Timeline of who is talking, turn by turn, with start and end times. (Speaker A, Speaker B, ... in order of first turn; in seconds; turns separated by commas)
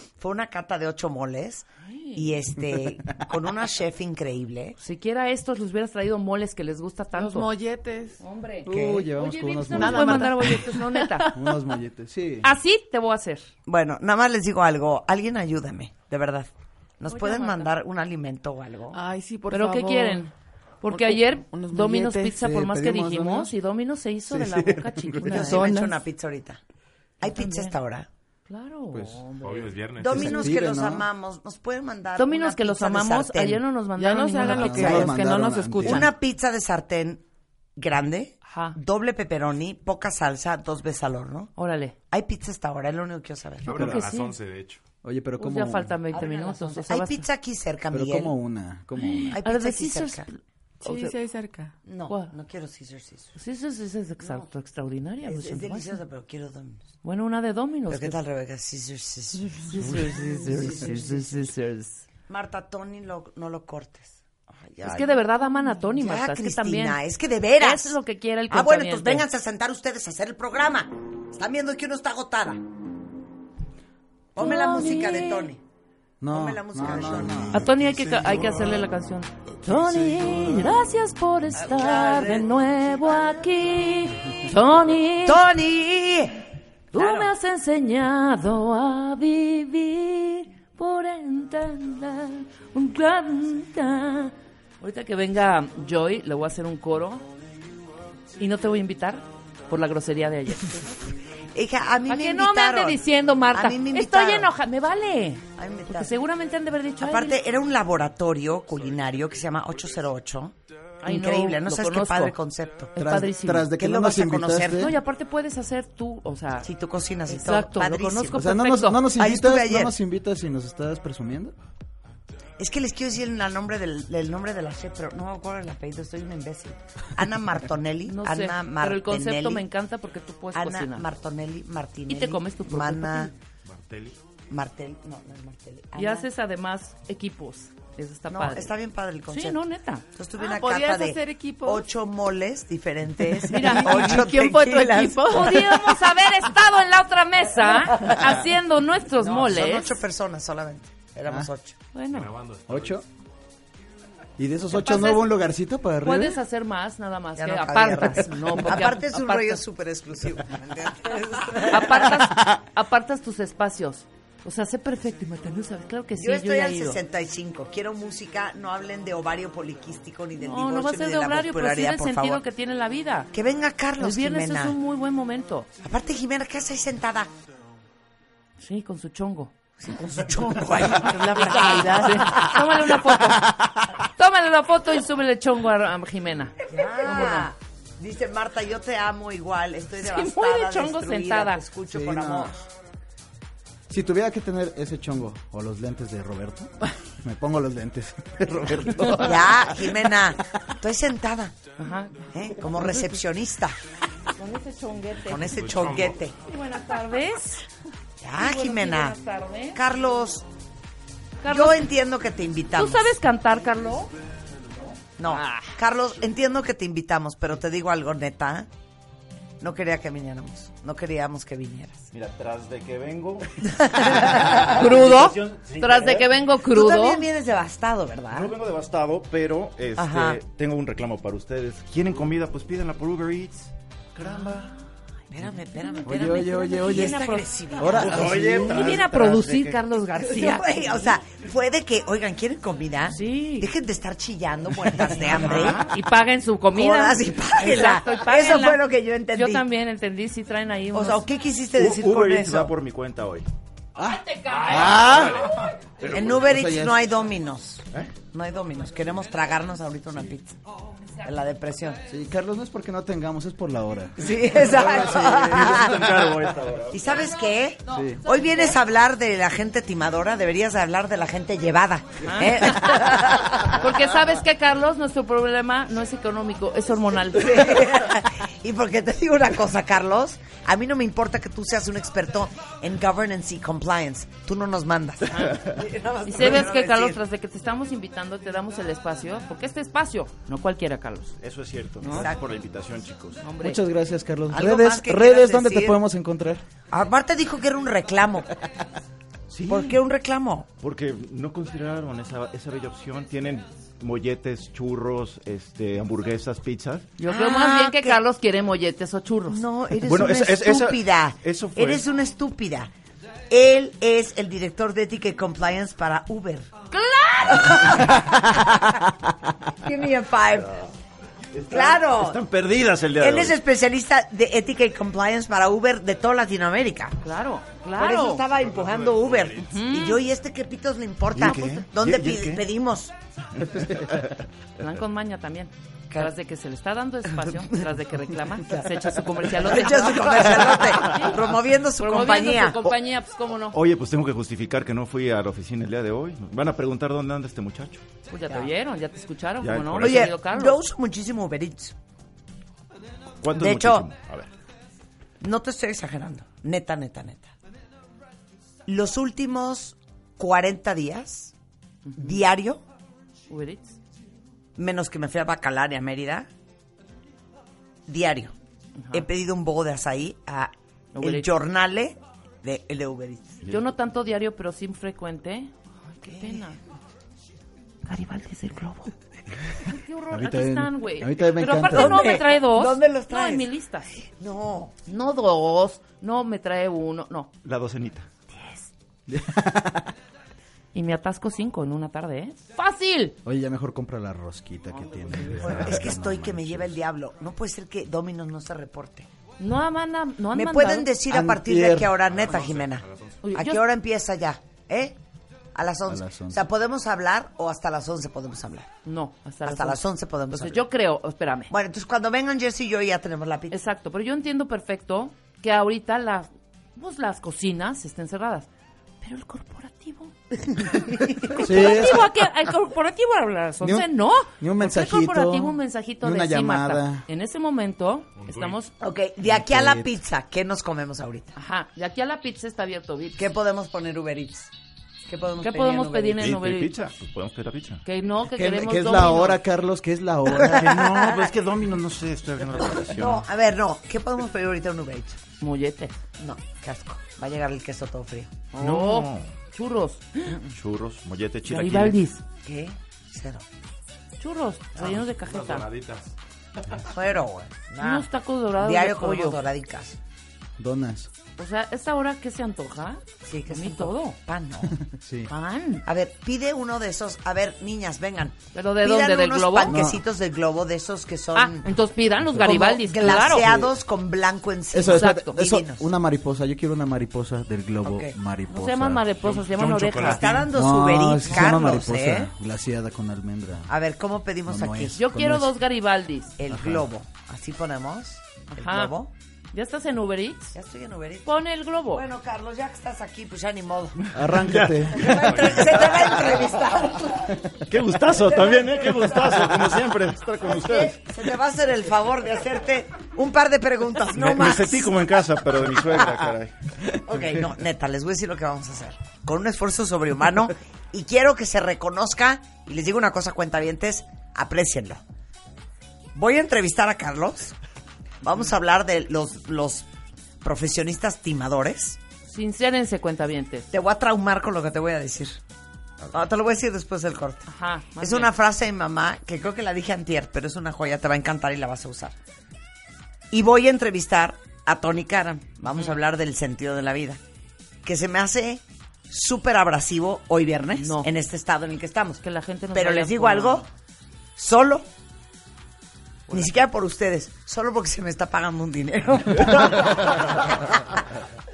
Speaker A: 0.2-4.8, Speaker B: 1.8-2.3, Speaker B: 4.8-7.5, Speaker C: 7.1-8.2, Speaker B: 8.2-11.3, Speaker D: 8.6-12.5, Speaker A: 8.7-9.1, Speaker C: 9.8-10.1, Speaker C: 11.2-11.6, Speaker B: 12.4-13.5, Speaker A: 13.7-19.0, Speaker B: 17.1-17.7, Speaker C: 18.9-20.3, Speaker B: 19.5-25.7, Speaker C: 20.9-22.4, Speaker D: 22.3-23.5, Speaker D: 24.3-25.5, Speaker A: 25.3-26.6, Speaker C: 25.5-26.0, Speaker A: 27.2-28.1, Speaker B: 27.2-27.8, Speaker B: 28.5-29.6, Speaker D: 28.9-29.3, Speaker E: 29.4-30.3, Speaker A: 29.9-33.6, Speaker D: 30.0-31.1, Speaker B: 32.1-35.0, Speaker C: 34.0-36.1, Speaker D: 34.4-36.1, Speaker A: 34.6-35.1, Speaker A: 35.8-37.2, Speaker A: 37.8-41.5, Speaker B: 38.5-38.8, Speaker B: 41.5-41.9, Speaker A: 42.1-44.1, Speaker B: 43.7-44.4, Speaker E: 43.8-44.8, Speaker D: 45.0-46.0, Speaker B: 45.4-47.2, Speaker A: 46.1-48.3, Speaker D: 47.9-49.4, Speaker A: 49.3-50.2, Speaker B: 49.4-51.1, Speaker C: 50.8-51.7, Speaker A: 51.9-53.3, Speaker B: 53.3-56.0, Speaker A: 54.2-54.5, Speaker A: 55.2-56.9, Speaker B: 57.0-58.2, Speaker A: 57.9-61.4, Speaker B: 59.6-62.0, Speaker A: 62.3-65.2, Speaker B: 64.8-67.0, Speaker A: 65.9-68.0, Speaker B: 67.6-69.2, Speaker A: 68.5-72.6, Speaker A: 74.3-75.6, Speaker B: 74.4-75.5, Speaker D: 76.2-77.9, Speaker A: 76.3-77.7, Speaker B: 77.5-85.4, Speaker D: 79.7-80.7, Speaker A: 81.5-83.4, Speaker A: 85.2-87.3, Speaker B: 86.9-97.2, Speaker B: 98.4-100.9, Speaker A: 101.5-103.0, Speaker B: 102.0-107.4, Speaker A: 103.5-104.5, Speaker A: 105.5-106.2, Speaker A: 107.0-112.9, Speaker B: 111.0-112.4, Speaker B: 112.9-113.7, Speaker D: 112.9-115.0, Speaker A: 113.7-114.9, Speaker B: 114.7-116.7, Speaker A: 116.6-118.5, Speaker B: 117.2-119.0, Speaker D: 118.3-121.5, Speaker A: 119.1-120.0, Speaker A: 122.6-129.6, Speaker B: 128.1-131.1, Speaker A: 130.5-133.3, Speaker B: 132.1-133.3, Speaker E: 133.7-134.2, Speaker A: 134.5-136.3, Speaker B: 135.9-138.7, Speaker A: 138.3-139.6, Speaker B: 139.3-140.0, Speaker A: 140.1-145.9, Speaker C: 140.4-141.9, Speaker B: 143.5-150.0, Speaker C: 143.6-145.1, Speaker A: 147.8-148.4, Speaker A: 149.2-151.8, Speaker B: 151.9-152.3, Speaker E: 152.1-153.0, Speaker D: 152.7-153.0, Speaker D: 154.4-156.4, Speaker B: 154.7-155.3, Speaker B: 156.0-159.6, Speaker A: 157.4-162.3, Speaker B: 161.7-167.0, Speaker A: 166.2-172.4, Speaker B: 170.4-173.3, Speaker A: 173.3-174.8, Speaker B: 174.0-175.7, Speaker A: 175.8-177.3, Speaker B: 178.6-179.5, Speaker A: 179.8-183.6, Speaker B: 181.3-183.6, Speaker B: 184.2-187.5, Speaker A: 186.7-192.6, Speaker B: 190.0-191.6, Speaker D: 191.9-192.6, Speaker D: 193.9-200.1, Speaker B: 199.0-199.2, Speaker A: 199.2-201.5, Speaker B: 201.8-203.2, Speaker A: 202.3-203.8, Speaker B: 204.4-205.6, Speaker A: 205.2-206.3, Speaker E: 205.6-206.2, Speaker B: 206.4-207.6, Speaker A: 208.2-209.2, Speaker B: 208.3-209.8, Speaker A: 209.7-210.4, Speaker B: 211.4-211.8, Speaker A: 211.5-213.1, Speaker B: 212.7-214.1, Speaker A: 215.2-218.7, Speaker B: 215.3-215.8, Speaker A: 219.6-222.1, Speaker F: 222.1-226.3, Speaker A: 223.7-225.1, Speaker B: 224.7-227.2, Speaker A: 226.7-228.5, Speaker F: 228.3-234.7, Speaker A: 230.0-230.4, Speaker A: 235.3-239.0, Speaker B: 235.8-240.9, Speaker D: 236.0-239.0, Speaker F: 237.9-239.8, Speaker A: 240.2-245.9, Speaker B: 243.1-243.7, Speaker B: 245.2-248.8, Speaker A: 246.7-249.6, Speaker B: 249.3-251.2, Speaker A: 250.9-252.7, Speaker F: 251.7-253.5, Speaker D: 253.9-255.5, Speaker B: 254.0-255.8, Speaker F: 254.8-255.4, Speaker F: 256.0-256.6, Speaker A: 256.1-260.6, Speaker D: 256.3-257.0, Speaker A: 261.2-262.0, Speaker D: 262.1-266.0, Speaker A: 264.2-266.3, Speaker F: 264.8-267.0, Speaker A: 266.9-273.9, Speaker D: 267.9-268.2, Speaker B: 272.2-273.1, Speaker B: 273.6-277.7, Speaker A: 277.3-287.2, Speaker B: 285.3-285.7, Speaker B: 286.2-291.3, Speaker F: 291.4-293.4, Speaker B: 292.0-292.3, Speaker A: 292.1-292.4, Speaker B: 293.4-293.8, Speaker D: 293.6-296.6, Speaker A: 294.5-296.0, Speaker A: 296.9-298.5, Speaker F: 299.5-300.0, Speaker A: 299.6-300.7, Speaker F: 300.8-307.1, Speaker B: 307.2-309.6, Speaker A: 307.2-308.2, Speaker A: 309.5-312.9, Speaker F: 310.0-312.0, Speaker A: 313.5-316.7, Speaker B: 316.9-317.9, Speaker A: 317.5-319.0, Speaker F: 318.2-318.6, Speaker A: 319.8-320.8, Speaker F: 321.5-323.6, Speaker A: 321.7-322.4, Speaker A: 323.2-327.2, Speaker B: 327.2-328.4, Speaker A: 328.0-333.1, Speaker E: 328.6-329.6, Speaker B: 329.6-330.2, Speaker F: 331.3-332.6, Speaker F: 333.6-334.4, Speaker B: 334.8-341.4, Speaker A: 337.3-337.8, Speaker A: 338.7-342.8, Speaker F: 340.2-341.4, Speaker B: 342.0-343.8, Speaker F: 343.7-348.1, Speaker B: 348.3-350.8, Speaker A: 348.5-348.7, Speaker F: 349.6-350.3, Speaker A: 350.0-351.9, Speaker F: 353.4-354.5, Speaker A: 353.5-354.1, Speaker A: 355.4-357.5, Speaker A: 358.9-361.5, Speaker B: 362.1-362.4, Speaker A: 362.1-362.8, Speaker B: 363.5-364.0, Speaker A: 364.8-366.5, Speaker A: 368.1-368.5, Speaker B: 368.9-369.2, Speaker A: 369.1-373.6, Speaker B: 371.1-371.5, Speaker B: 373.6-376.8, Speaker A: 376.2-376.6, Speaker B: 378.1-379.1, Speaker B: 379.7-384.1, Speaker D: 380.3-382.4, Speaker A: 381.9-383.7, Speaker A: 384.2-384.9, Speaker B: 385.0-387.5, Speaker F: 387.6-388.3, Speaker B: 388.5-388.9, Speaker D: 389.3-390.1, Speaker B: 390.9-393.4, Speaker D: 393.4-397.0, Speaker B: 394.9-395.6, Speaker A: 395.6-399.3, Speaker B: 399.6-401.1, Speaker A: 400.5-405.1, Speaker D: 401.3-402.3, Speaker E: 402.3-403.4, Speaker B: 403.4-403.8, Speaker A: 405.7-408.9, Speaker D: 406.1-406.6, Speaker B: 409.0-411.7, Speaker A: 409.6-410.8, Speaker A: 411.7-413.8, Speaker B: 413.7-418.7, Speaker B: 419.2-420.3, Speaker A: 421.0-422.1, Speaker B: 421.5-428.9, Speaker D: 421.5-422.3, Speaker D: 423.8-427.2, Speaker E: 428.4-428.8, Speaker A: 429.0-431.5, Speaker D: 429.5-430.1, Speaker B: 431.5-433.4, Speaker A: 433.4-434.7, Speaker A: 435.2-436.5, Speaker B: 435.6-436.9, Speaker F: 436.4-438.0, Speaker B: 438.0-439.6, Speaker D: 438.5-441.2, Speaker A: 440.6-441.5, Speaker F: 440.6-443.4, Speaker A: 442.9-445.4, Speaker B: 445.6-446.1, Speaker A: 446.4-448.5, Speaker B: 448.7-450.6, Speaker F: 448.8-449.5, Speaker F: 450.7-452.2, Speaker B: 451.7-452.4, Speaker A: 452.6-453.6, Speaker B: 454.4-455.9, Speaker E: 455.7-456.3, Speaker A: 457.0-460.2, Speaker B: 458.0-459.6, Speaker D: 460.8-461.3, Speaker B: 461.6-464.4, Speaker A: 463.4-465.1, Speaker D: 465.1-465.5, Speaker B: 465.5-466.0, Speaker A: 466.0-471.9, Speaker B: 468.7-470.0, Speaker D: 469.8-470.2, Speaker B: 471.5-473.7, Speaker D: 472.4-474.0, Speaker A: 472.6-476.1, Speaker D: 474.9-479.4, Speaker B: 475.1-475.6, Speaker A: 478.0-478.3, Speaker B: 478.7-480.5, Speaker E: 479.4-480.4, Speaker A: 480.2-482.5, Speaker D: 480.5-483.9, Speaker A: 483.9-485.2, Speaker D: 484.7-485.7, Speaker B: 485.1-486.5, Speaker A: 486.6-489.3, Speaker D: 486.7-487.1, Speaker B: 488.7-489.1, Speaker B: 489.7-490.7, Speaker A: 490.7-491.5, Speaker B: 491.4-492.2, Speaker A: 492.1-494.3, Speaker D: 494.3-495.6, Speaker F: 494.3-496.6, Speaker A: 495.1-499.7, Speaker F: 497.9-501.2, Speaker A: 500.6-505.8, Speaker F: 504.3-506.9, Speaker A: 507.1-515.2, Speaker A: 516.3-517.8, Speaker A: 518.4-520.0, Speaker A: 520.6-522.2, Speaker B: 522.5-523.9, Speaker A: 523.9-525.6, Speaker A: 526.2-532.4, Speaker B: 527.7-528.5, Speaker A: 533.5-537.4, Speaker A: 538.0-542.4, Speaker B: 541.0-541.3, Speaker B: 542.4-543.8, Speaker A: 542.9-543.9, Speaker A: 544.6-545.0, Speaker A: 546.5-551.2, Speaker F: 549.7-550.3